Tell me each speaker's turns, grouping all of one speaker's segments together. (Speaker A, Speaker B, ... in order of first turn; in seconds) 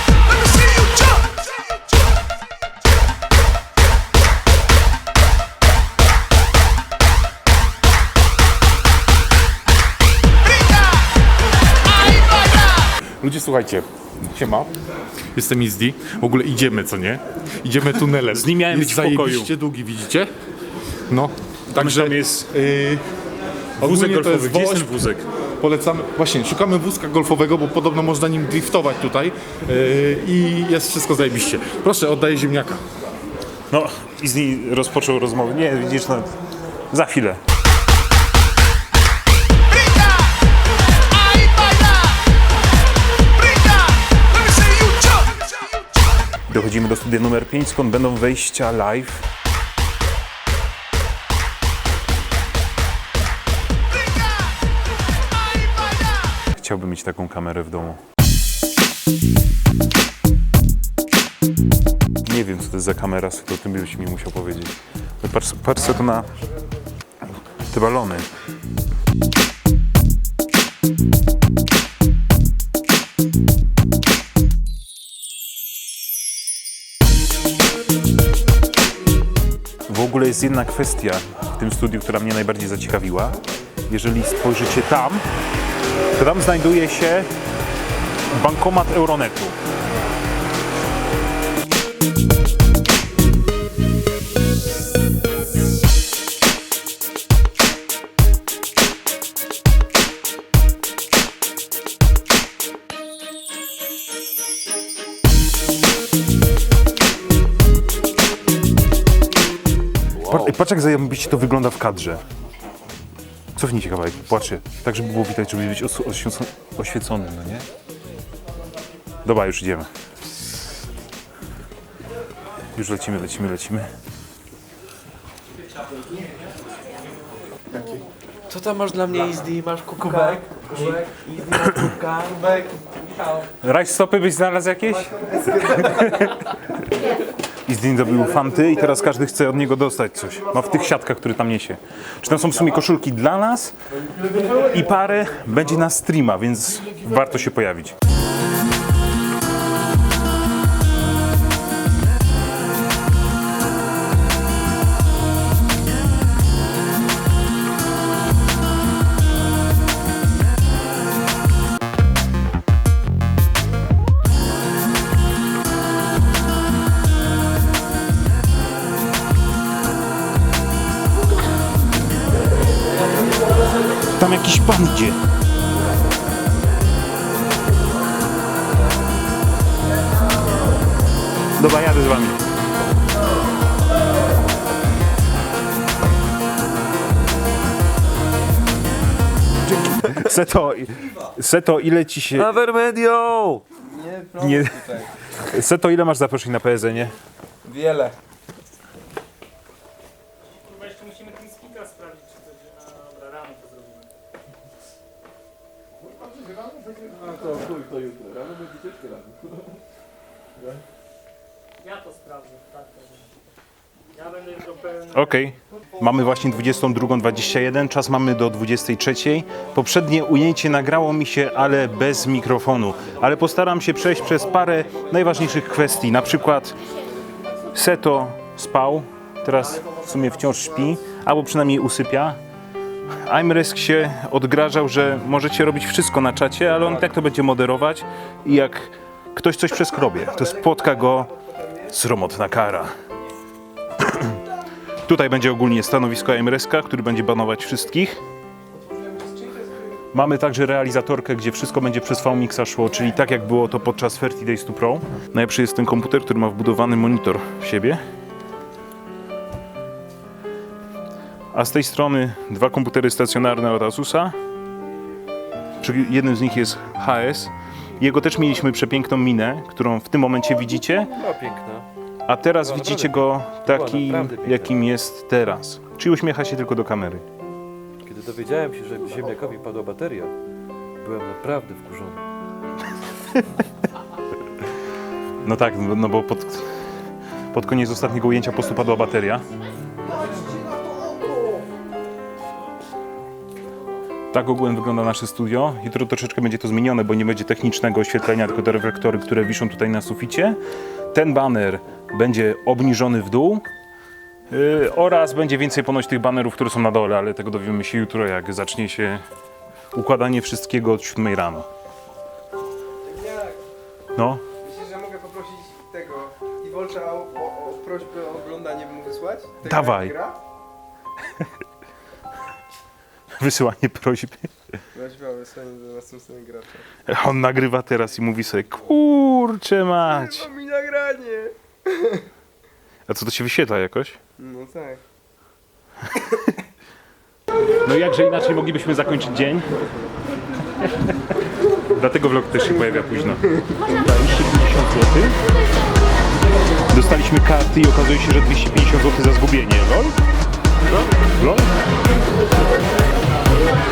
Speaker A: 0.3-1.2, 18.3-19.5, 21.7-22.5, 23.8-25.3, 33.7-36.4, 36.9-37.4, 44.5-45.2, 46.5-49.3, 56.5-58.0, 62.2-66.3, 67.7-68.3, 79.9-85.2, 86.1-87.3, 88.3-89.5, 110.2-112.2, 113.5-117.7, 119.2-119.9, 122.7-123.9, 131.6-131.9, 133.6-136.5, 137.7-143.7, 144.4-147.9, 174.2-175.2, 181.6-182.4, 189.9-192.5, 194.4-197.2, 215.1-226.8, 227.7-232.4, 233.2-241.3, 241.9-242.9, 244.0-244.4, 245.0-248.2, 250.1-258.0, 261.5-264.3, 265.8-271.1, 272.2-277.2, 285.4-286.7, 287.5-289.4, 294.3-300.6, 301.1-303.6, 304.5-309.2, 309.9-311.7, 314.1-314.4, 319.6-320.1, 323.4-324.5, 327.1-330.5, 333.1-334.2, 337.8-339.7, 341.9-345.4, 346.9-350.2, 351.4-351.7
Speaker B: 13.2-14.7, 15.3-20.3, 21.1-23.0, 23.8-24.9, 25.6-32.8
Speaker C: 110.2-110.5, 128.5-132.7, 192.4-193.6, 270.7-271.9, 272.6-274.7, 278.0-280.3, 281.0-282.2
Speaker D: 193.8-195.0, 197.7-198.1, 241.4-241.9, 249.0-249.7, 313.1-313.6, 314.6-320.4, 324.9-326.8, 330.4-331.5, 334.4-335.0
Speaker E: 200.5-204.1, 211.8-213.3, 214.2-215.1